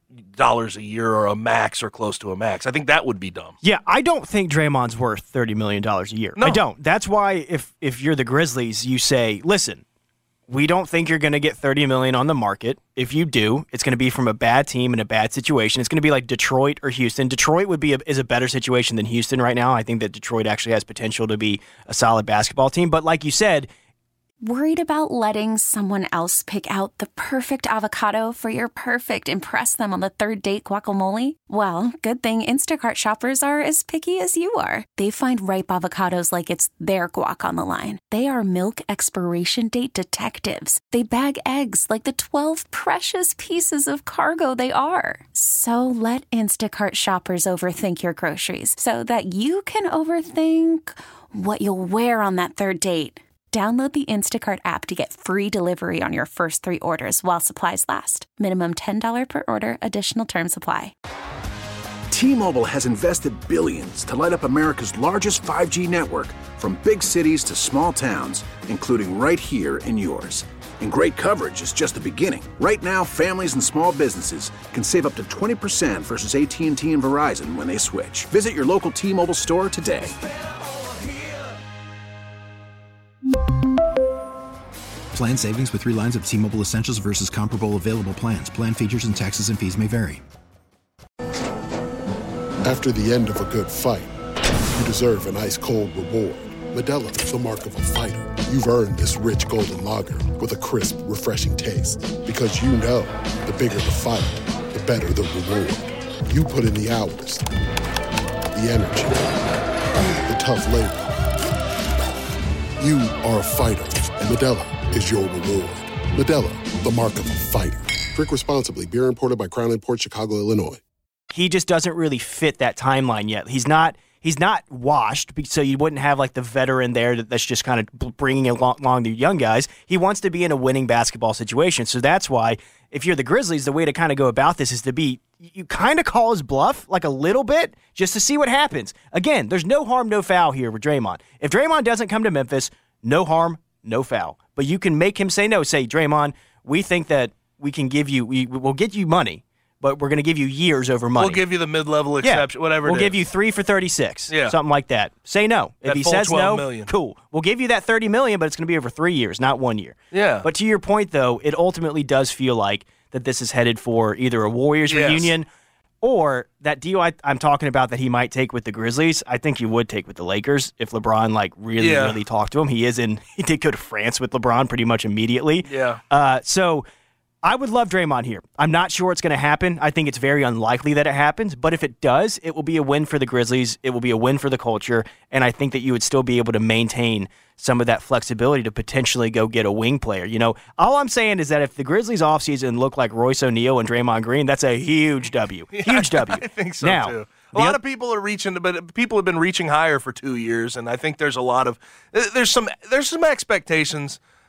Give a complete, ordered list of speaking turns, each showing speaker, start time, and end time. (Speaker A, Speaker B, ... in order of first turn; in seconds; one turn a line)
Speaker A: 0.3-3.5
Speaker B: 3.6-9.8
Speaker A: 6.4-6.6
Speaker B: 10.5-23.7
Speaker C: 24.4-60.9
Speaker D: 62.1-80.1
Speaker E: 85.1-90.2
Speaker F: 92.6-94.1
Speaker F: 94.8-107.5
Speaker F: 108.5-109.5
Speaker F: 110.2-111.1
Speaker F: 112.8-120.8
Speaker B: 121.3-151.4
Speaker A: 151.2-153.2
Speaker B: 152.2-165.5
Speaker A: 154.3-154.6
Speaker A: 155.8-156.9
Speaker A: 160.1-160.5
Speaker A: 164.9-165.3
Speaker B: 166.0-176.8
Speaker A: 171.8-172.2
Speaker A: 175.7-176.0
Speaker B: 177.4-197.8
Speaker A: 195.7-204.2